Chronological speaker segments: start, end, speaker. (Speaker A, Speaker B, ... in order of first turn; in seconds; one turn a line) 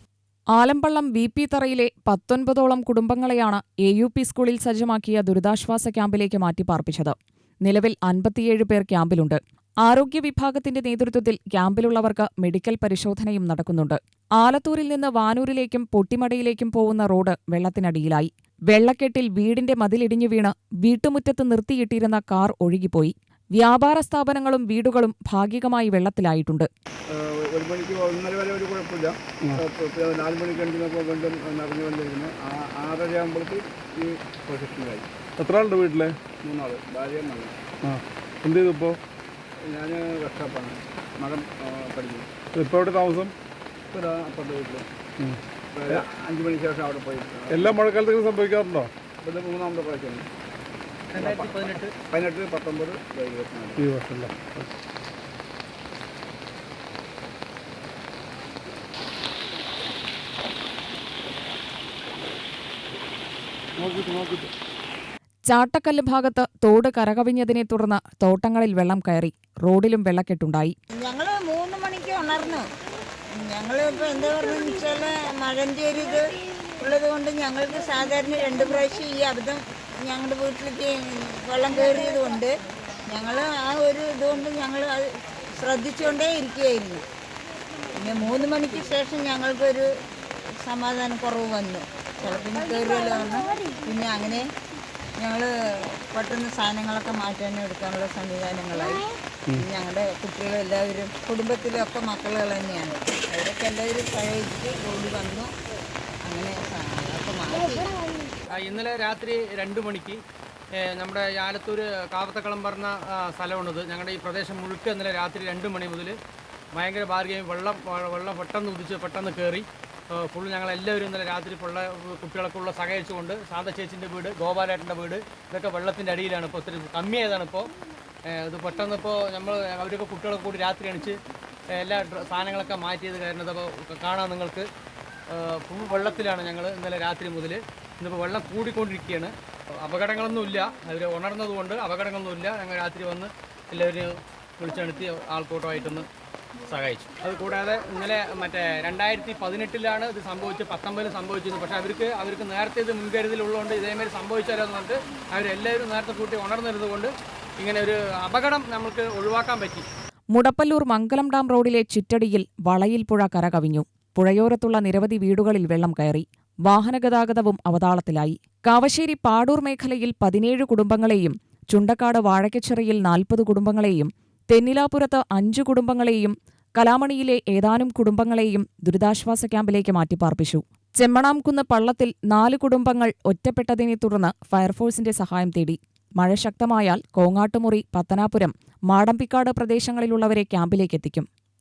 Speaker A: 0.5-26.7
Speaker B: 27.1-35.1
Speaker C: 35.4-36.2
Speaker B: 36.4-37.5
Speaker C: 37.8-39.0
Speaker B: 39.6-42.3
Speaker C: 42.5-43.3
Speaker B: 43.9-44.8
Speaker B: 45.7-47.8
Speaker C: 47.5-48.9
Speaker B: 49.2-50.2
Speaker D: 51.1-51.9
Speaker B: 51.2-51.5
Speaker B: 52.1-53.9
Speaker C: 53.8-54.7
Speaker C: 63.8-64.5
Speaker A: 65.5-70.7
Speaker E: 71.0-72.6
Speaker E: 73.4-76.2
Speaker E: 76.8-82.5
Speaker E: 83.1-87.0
Speaker E: 88.0-89.9
Speaker E: 90.6-94.4
Speaker E: 95.2-95.5
Speaker E: 96.0-105.5
Speaker E: 106.2-107.9
Speaker D: 108.5-110.2
Speaker D: 110.8-116.1
Speaker D: 116.7-127.7
Speaker D: 128.3-131.2
Speaker D: 131.8-134.7
Speaker D: 135.3-139.3
Speaker D: 139.8-146.1
Speaker D: 146.7-159.8
Speaker A: 160.3-191.3